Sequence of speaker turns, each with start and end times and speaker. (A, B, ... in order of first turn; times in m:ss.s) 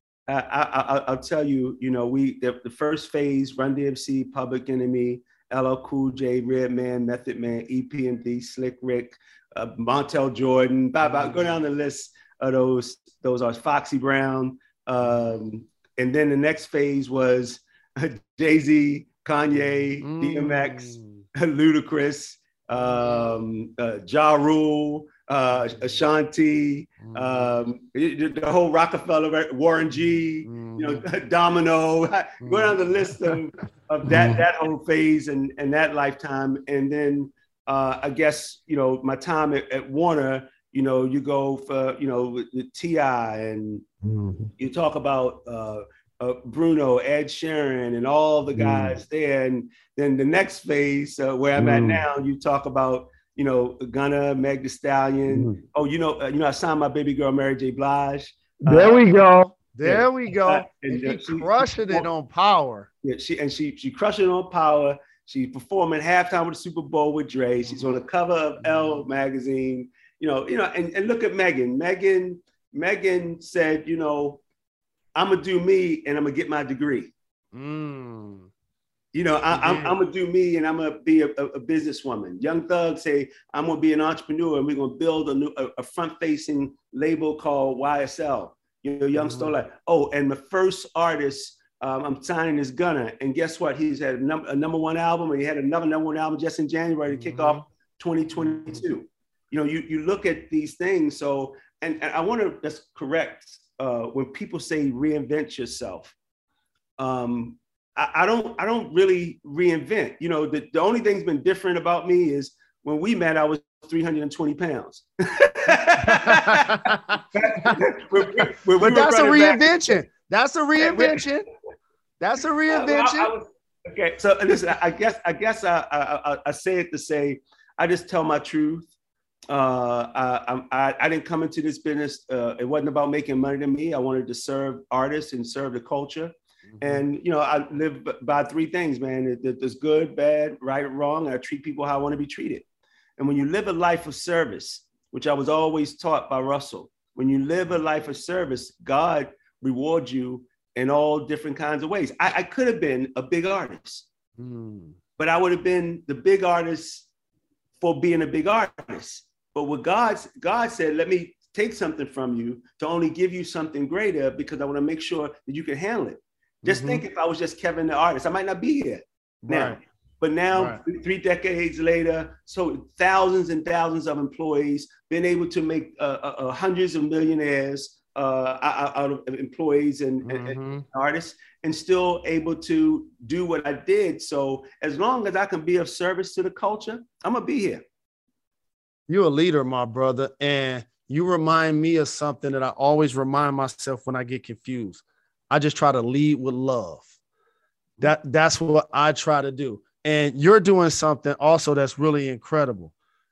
0:00.3-0:43.8 A
0:20.0-0:21.2 B
0:27.0-0:27.5 B
0:30.4-0:31.0 B
0:32.4-0:32.8 B
0:34.1-0:34.4 B
0:44.0-0:44.5 B
0:44.6-0:59.0 A
0:48.5-0:49.0 B
0:51.6-0:52.0 B
0:55.3-0:55.6 B
0:58.6-1:02.9 B
0:59.8-1:02.1 A
1:03.0-1:14.4 A
1:15.2-1:17.1 A
1:17.5-1:18.5 B
1:19.1-1:46.2 A
1:19.5-1:20.0 B
1:29.1-1:29.5 B
1:37.1-1:37.6 B
1:38.4-1:38.8 B
1:47.0-1:59.7 A
1:56.1-1:57.8 B
1:58.8-2:01.5 B
2:00.8-2:01.3 A
2:02.2-2:03.3 B
2:02.7-2:08.9 A
2:09.5-2:22.6 A
2:16.7-2:17.0 B
2:23.2-2:34.1 A
2:34.4-2:35.0 B
2:35.2-2:37.1 A
2:37.8-3:07.8 A
2:46.6-2:47.0 B
2:49.4-2:49.8 B
2:50.5-2:50.8 B
3:00.2-3:00.8 B
3:09.1-3:17.1 B
3:18.0-3:22.9 B